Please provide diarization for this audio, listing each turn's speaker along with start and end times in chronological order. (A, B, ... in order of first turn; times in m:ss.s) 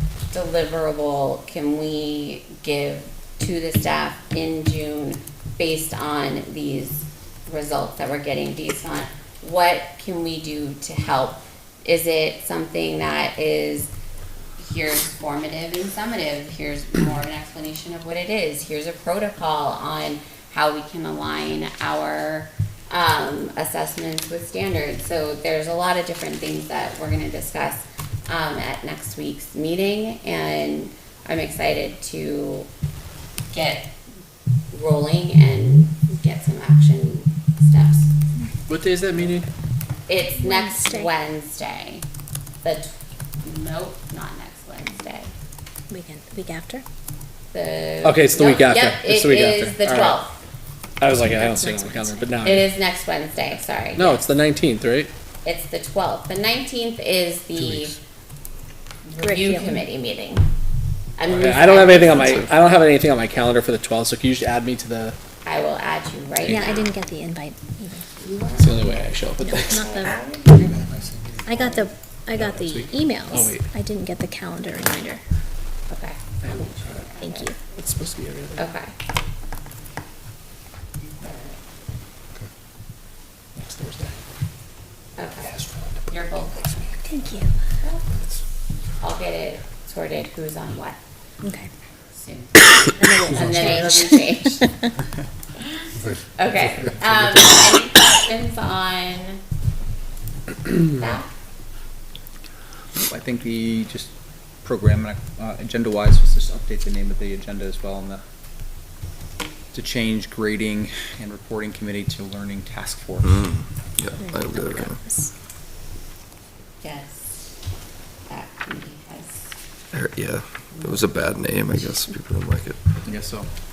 0:00.3-0:13.9 A
0:14.6-0:32.7 A
0:33.5-0:33.9 A
0:34.7-0:38.1 A
0:38.7-0:39.5 B
0:40.1-0:42.0 A
0:40.4-0:41.1 C
0:42.6-0:45.3 A
0:45.9-0:46.8 C
0:47.5-0:50.4 A
0:48.0-0:50.2 B
0:51.0-0:52.7 B
0:51.2-0:52.2 C
0:52.4-0:54.2 A
0:54.0-0:55.1 B
0:55.4-0:58.0 A
0:59.1-1:00.4 A
0:59.2-0:59.7 C
1:01.2-1:02.4 A
1:01.3-1:05.2 B
1:05.4-1:06.9 A
1:06.4-1:06.7 B
1:06.5-1:08.0 C
1:08.2-1:08.8 A
1:08.6-1:09.9 B
1:09.4-1:10.2 C
1:09.8-1:10.6 A
1:11.4-1:15.2 C
1:12.3-1:13.6 B
1:15.9-1:17.5 A
1:17.2-1:17.6 C
1:17.7-1:18.7 B
1:18.6-1:18.9 A
1:21.2-1:21.5 A
1:25.2-1:26.7 A
1:27.0-1:27.5 C
1:29.0-1:31.0 A
1:31.4-1:31.7 C
1:32.1-1:34.8 A
1:33.1-1:33.9 C
1:35.8-1:39.4 A
1:40.8-1:41.3 A
1:43.0-1:44.1 D
1:44.6-1:48.2 D
1:49.7-1:53.5 D
1:53.4-1:55.0 E
1:54.2-1:55.3 C
1:56.8-1:57.5 A
1:58.3-1:59.5 A
1:59.9-2:02.8 E
2:03.0-2:03.5 D